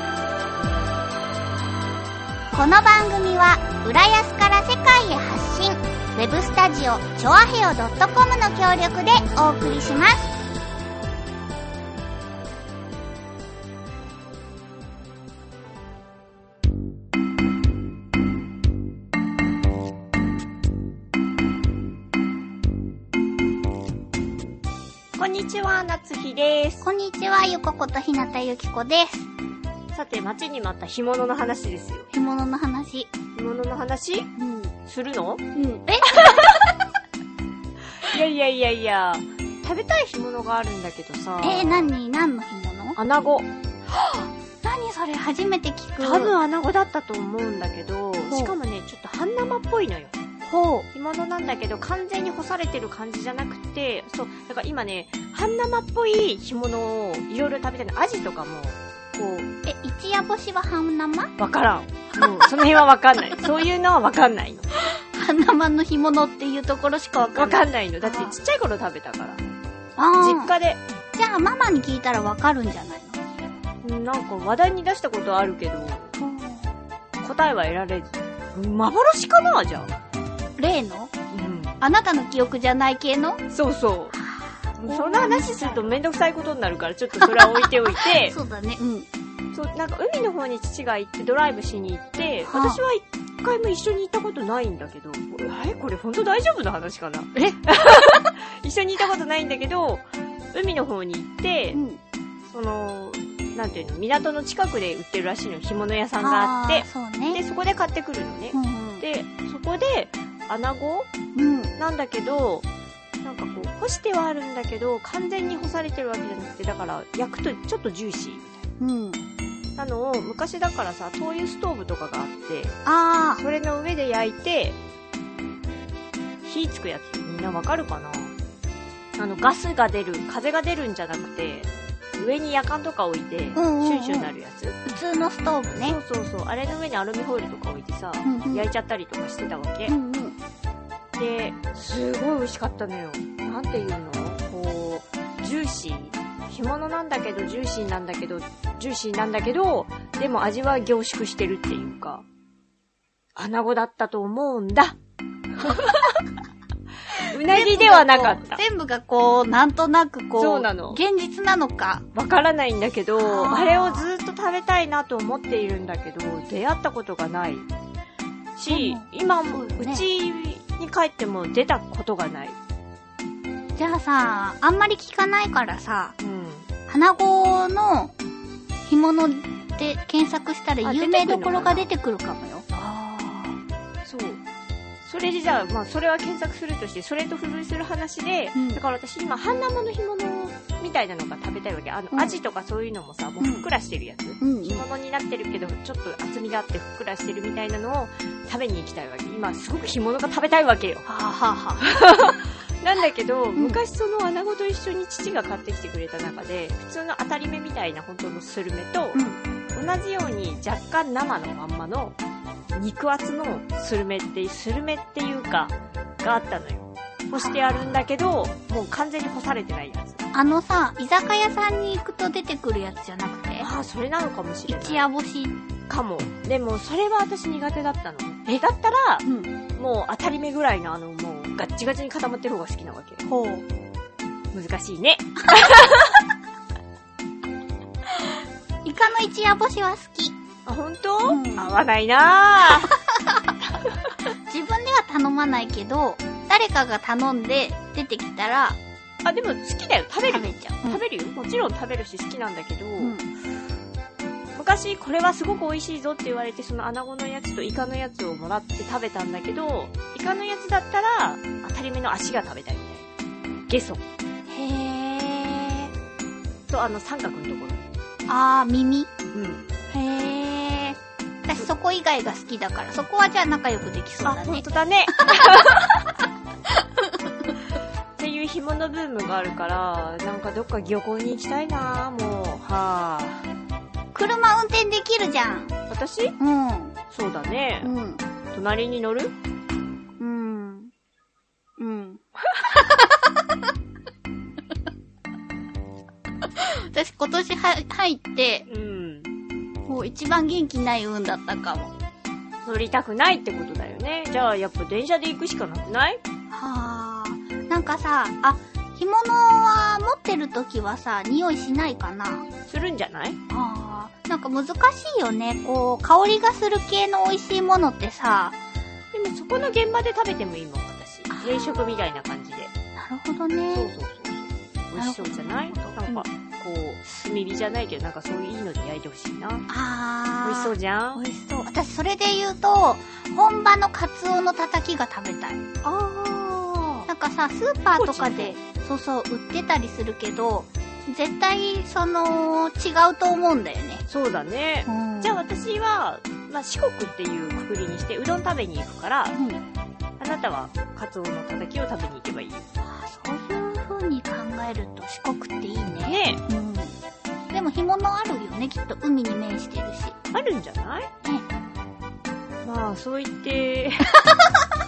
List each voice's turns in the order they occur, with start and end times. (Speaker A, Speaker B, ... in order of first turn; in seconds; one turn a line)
Speaker A: 2.5-10.3
Speaker B: 25.2-26.9
Speaker A: 26.8-29.3
Speaker B: 29.9-32.1
Speaker A: 32.1-33.1
Speaker B: 33.4-34.3
Speaker A: 34.4-34.7
Speaker B: 34.9-35.4
Speaker A: 35.5-36.7
Speaker B: 38.0-41.9
Speaker A: 41.4-43.0
Speaker B: 43.0-43.5
Speaker A: 43.9-46.3
Speaker B: 46.0-50.2
Speaker A: 48.3-48.6
Speaker A: 50.4-50.9
Speaker B: 50.9-59.5
Speaker A: 59.7-61.3
Speaker B: 61.4-64.7
Speaker A: 62.2-62.6
Speaker A: 64.9-68.4
Speaker B: 67.3-69.4
Speaker A: 70.0-70.5
Speaker B: 70.2-70.8
Speaker A: 71.2-73.2
Speaker B: 73.8-76.2
Speaker A: 76.2-76.8
Speaker B: 77.2-79.9
Speaker A: 80.6-81.1
Speaker B: 81.3-81.8
Speaker A: 81.8-83.4
Speaker B: 83.5-84.2
Speaker A: 84.2-86.0
Speaker B: 84.8-88.4
Speaker A: 87.2-89.1
Speaker B: 89.5-101.8
Speaker A: 92.5-92.8
Speaker A: 101.7-102.0
Speaker B: 102.5-111.1
Speaker A: 106.2-107.4
Speaker A: 108.5-109.0
Speaker A: 111.3-111.7
Speaker B: 111.8-112.7
Speaker B: 113.2-118.7
Speaker A: 118.8-119.2
Speaker B: 119.8-122.8
Speaker A: 122.8-123.4
Speaker B: 123.4-124.8
Speaker B: 126.5-128.3
Speaker B: 129.2-134.8
Speaker A: 133.5-134.3
Speaker A: 134.8-136.0
Speaker B: 135.8-140.0
Speaker A: 138.2-138.7
Speaker A: 139.9-140.4
Speaker B: 141.2-152.2
Speaker B: 153.4-155.0
Speaker B: 155.6-156.0
Speaker B: 157.3-158.6
Speaker A: 157.5-162.1
Speaker B: 160.4-161.0
Speaker B: 162.1-167.7
Speaker A: 163.2-164.1
Speaker B: 168.6-172.6
Speaker A: 168.7-170.1
Speaker A: 173.8-176.2
Speaker B: 176.2-176.7
Speaker A: 176.9-178.2
Speaker A: 178.9-183.6
Speaker B: 180.8-181.9
Speaker B: 184.0-184.4
Speaker B: 185.0-201.1
Speaker A: 188.6-188.8
Speaker A: 192.1-192.4
Speaker A: 193.4-193.7
Speaker A: 194.4-194.9
Speaker A: 201.1-201.9
Speaker B: 201.8-209.2
Speaker A: 203.6-203.8
Speaker A: 209.1-209.4
Speaker B: 209.7-212.2
Speaker B: 212.7-220.2
Speaker A: 217.3-217.9
Speaker A: 220.3-223.7
Speaker B: 223.6-225.1
Speaker A: 224.7-225.6
Speaker B: 225.9-229.2
Speaker A: 229.2-229.5
Speaker B: 229.8-233.2
Speaker A: 233.2-233.6
Speaker B: 234.5-236.1
Speaker A: 238.8-240.3
Speaker B: 240.7-242.9
Speaker A: 241.3-241.8
Speaker A: 244.5-248.8
Speaker B: 249.2-253.2
Speaker A: 250.3-251.0
Speaker A: 253.0-253.3
Speaker B: 254.6-263.1
Speaker B: 263.7-264.0
Speaker A: 264.5-265.9
Speaker B: 266.7-267.9
Speaker A: 268.3-269.1
Speaker B: 269.3-269.7
Speaker A: 269.9-274.6
Speaker B: 274.2-276.0
Speaker A: 275.2-275.8
Speaker B: 278.2-283.5
Speaker A: 284.1-285.8
Speaker B: 285.9-286.4
Speaker A: 286.4-287.0
Speaker B: 287.1-287.9
Speaker A: 287.8-288.2
Speaker B: 288.5-289.3
Speaker A: 290.2-290.9
Speaker A: 291.8-293.3
Speaker A: 296.6-298.7
Speaker B: 298.7-299.3
Speaker A: 299.9-301.9
Speaker B: 302.6-306.2
Speaker A: 306.5-312.5
Speaker B: 312.7-313.4
Speaker A: 313.5-318.6
Speaker B: 319.1-322.7
Speaker A: 321.3-322.0
Speaker A: 323.0-323.9
Speaker B: 323.7-329.7
Speaker A: 324.9-326.2
Speaker A: 329.7-335.6
Speaker B: 330.4-331.2
Speaker B: 335.8-337.1
Speaker A: 337.1-344.0
Speaker B: 338.0-338.6
Speaker B: 344.1-349.4
Speaker A: 344.9-345.4
Speaker A: 349.3-349.6
Speaker B: 350.2-352.7
Speaker A: 352.8-356.9
Speaker B: 356.0-356.4
Speaker A: 357.5-360.2
Speaker B: 360.3-361.1
Speaker B: 362.6-364.1